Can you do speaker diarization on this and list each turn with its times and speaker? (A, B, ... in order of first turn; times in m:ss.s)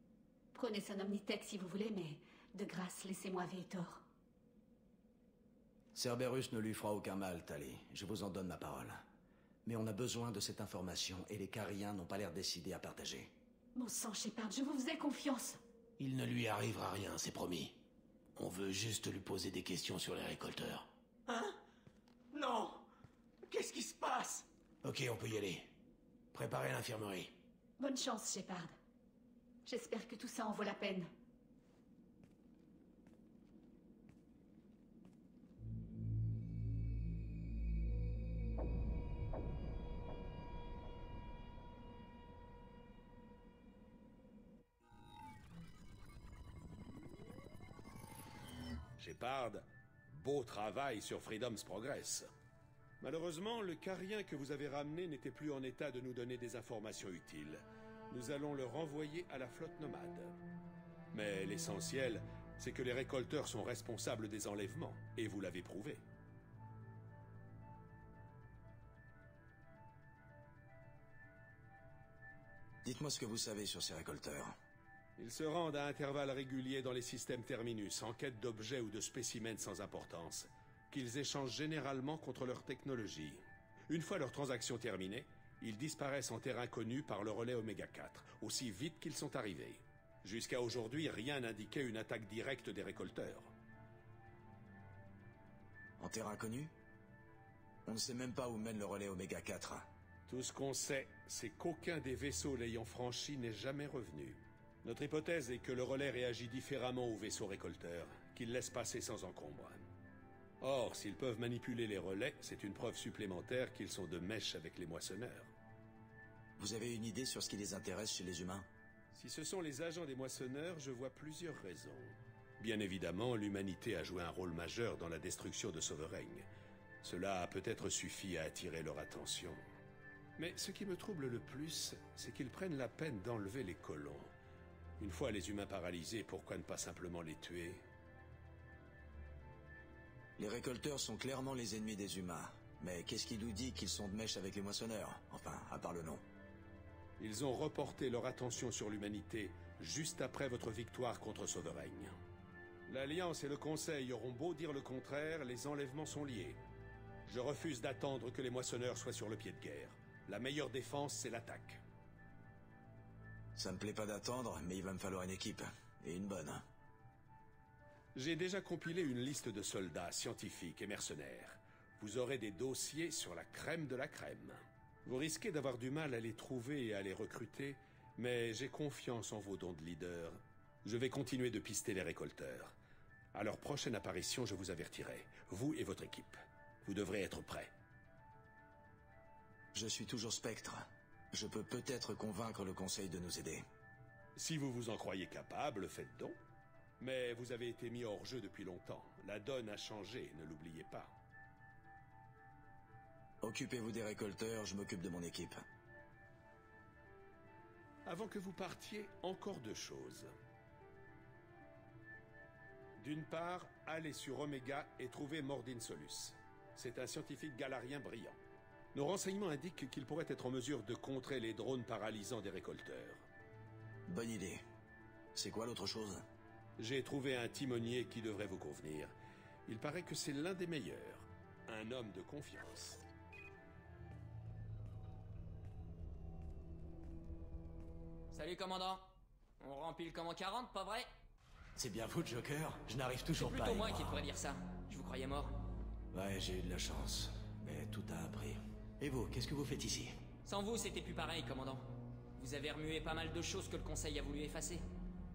0:00.5-0:04.0 A
0:05.9-0:09.0 B
0:09.6-0:13.3 B
0:13.7-0:15.6 A
0:16.0-0:17.8 C
0:18.4-0:20.9 C
0:21.3-0:21.6 D
0:22.3-0:22.8 D
0:23.5-0:24.5 D
0:24.8-0:25.7 C
0:26.3-0:27.3 C
0:27.8-0:28.7 A
0:29.6-0:31.1 A
0:49.0-0:52.3 E
0:53.0-1:00.4 E
1:01.1-1:06.0 E
1:12.8-1:14.5 B
1:15.2-1:33.5 E
1:36.0-1:36.7 B
1:37.8-1:39.8 B
1:40.3-1:49.8 E
1:50.6-1:55.5 E
1:56.6-1:58.7 B
1:59.1-2:06.5 E
2:07.0-2:09.6 E
2:10.4-2:14.3 E
2:15.0-2:17.8 E
2:20.4-2:26.2 B
2:27.2-2:32.2 E
2:32.9-2:36.6 E
2:37.2-2:41.8 E
2:43.5-2:46.6 B
2:48.1-3:02.7 E
3:03.3-3:07.7 E
3:09.7-3:13.6 B
3:14.4-3:16.4 E
3:17.0-3:21.1 E
3:23.4-3:25.6 B
3:28.0-3:30.3 E
3:33.0-3:38.4 E
3:38.9-3:43.2 E
3:44.1-3:44.6 B
3:45.3-3:46.2 B
3:46.8-3:49.1 E
3:49.7-3:53.0 E
3:58.3-4:01.1 F
4:01.8-4:04.2 B
4:03.3-4:05.5 F
4:06.1-4:10.1 B
4:10.4-4:11.8 F
4:12.4-4:14.8 F